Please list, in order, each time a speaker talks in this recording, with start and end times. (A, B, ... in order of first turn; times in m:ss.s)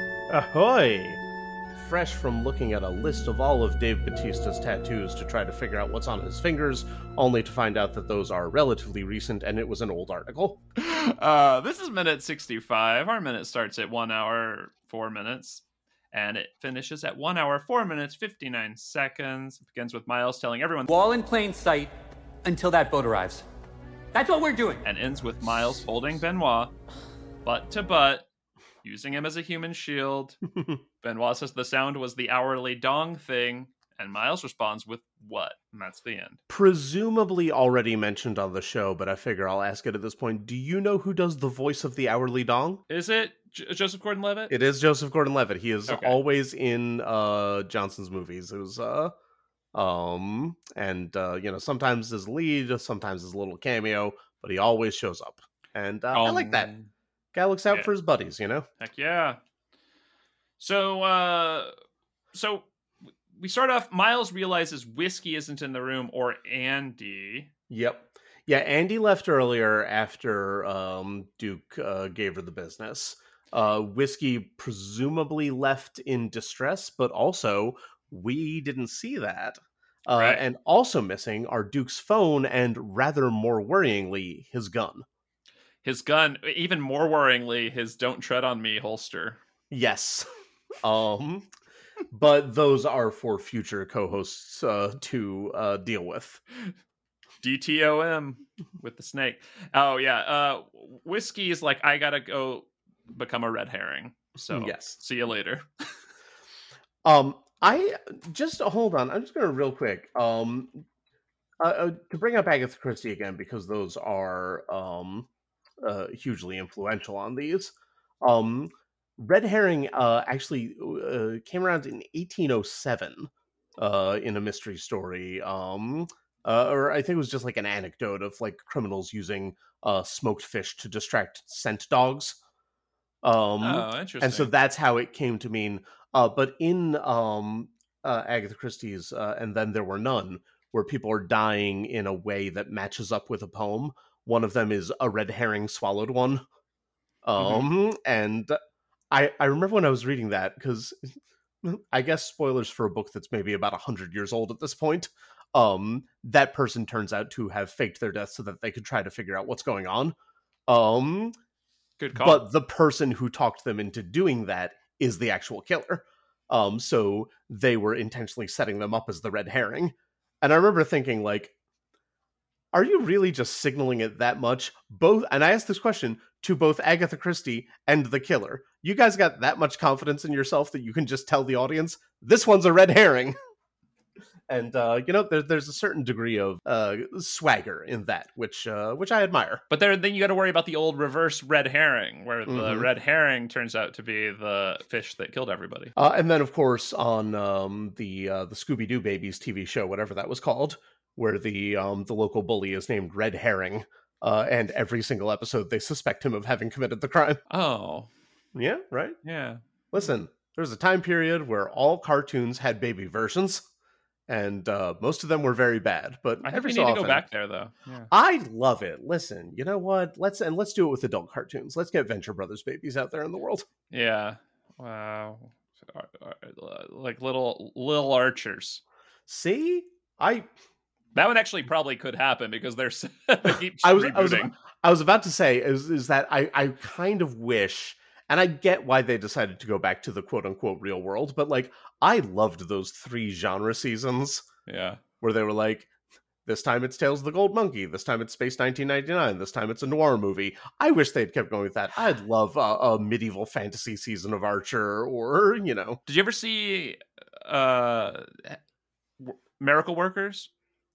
0:00.3-0:01.2 A
0:01.7-0:10.6 A
0:10.8-0:20.9 B
0:20.9-0:21.9 C
0:22.4-0:23.4 C
0:24.1-0:24.8 C
0:24.8-0:26.7 B
0:27.4-0:28.3 B
0:28.8-0:30.4 B
0:31.0-0:36.4 B
0:36.5-0:42.8 A
0:42.9-0:44.5 B
0:44.5-0:49.1 A
0:45.9-0:46.2 B
0:49.7-0:56.7 A
0:56.1-0:56.9 B
0:57.3-0:58.6 A
0:58.8-0:59.4 B
1:00.6-1:01.7 B
1:02.3-1:02.7 B
1:03.3-1:07.5 B
1:07.7-1:25.0 A
1:20.1-1:20.4 B
1:25.8-1:29.4 B
1:29.7-1:30.3 A
1:30.8-1:31.5 A
1:32.1-1:36.4 A
1:37.4-1:45.6 B
1:44.4-1:45.0 A
1:47.0-1:50.8 A
1:51.6-1:55.3 A
1:55.8-2:12.4 A
2:13.2-2:26.4 A
2:13.6-2:14.5 B
2:27.2-2:28.6 A
2:27.4-2:27.7 B
2:29.1-2:31.1 A
2:31.6-2:40.2 A
2:40.7-2:41.3 A
2:42.0-2:42.4 B
2:42.1-2:51.5 A
2:52.7-3:03.4 A
3:04.5-3:09.6 A
3:09.7-3:15.9 B
3:12.5-3:12.9 A
3:16.0-3:27.4 A
3:27.5-3:28.1 B
3:28.5-3:29.2 A
3:29.2-3:29.6 B
3:29.9-3:33.6 A
3:34.3-3:37.2 A
3:36.4-3:38.1 B
3:38.1-3:43.7 A
3:43.9-3:48.8 B
3:49.3-3:50.5 A
3:51.1-3:54.5 B
3:53.4-4:04.4 A
4:04.7-4:05.0 B
4:05.2-4:05.9 A
4:06.4-4:16.0 A
4:16.1-4:18.6 B
4:19.2-4:20.5 B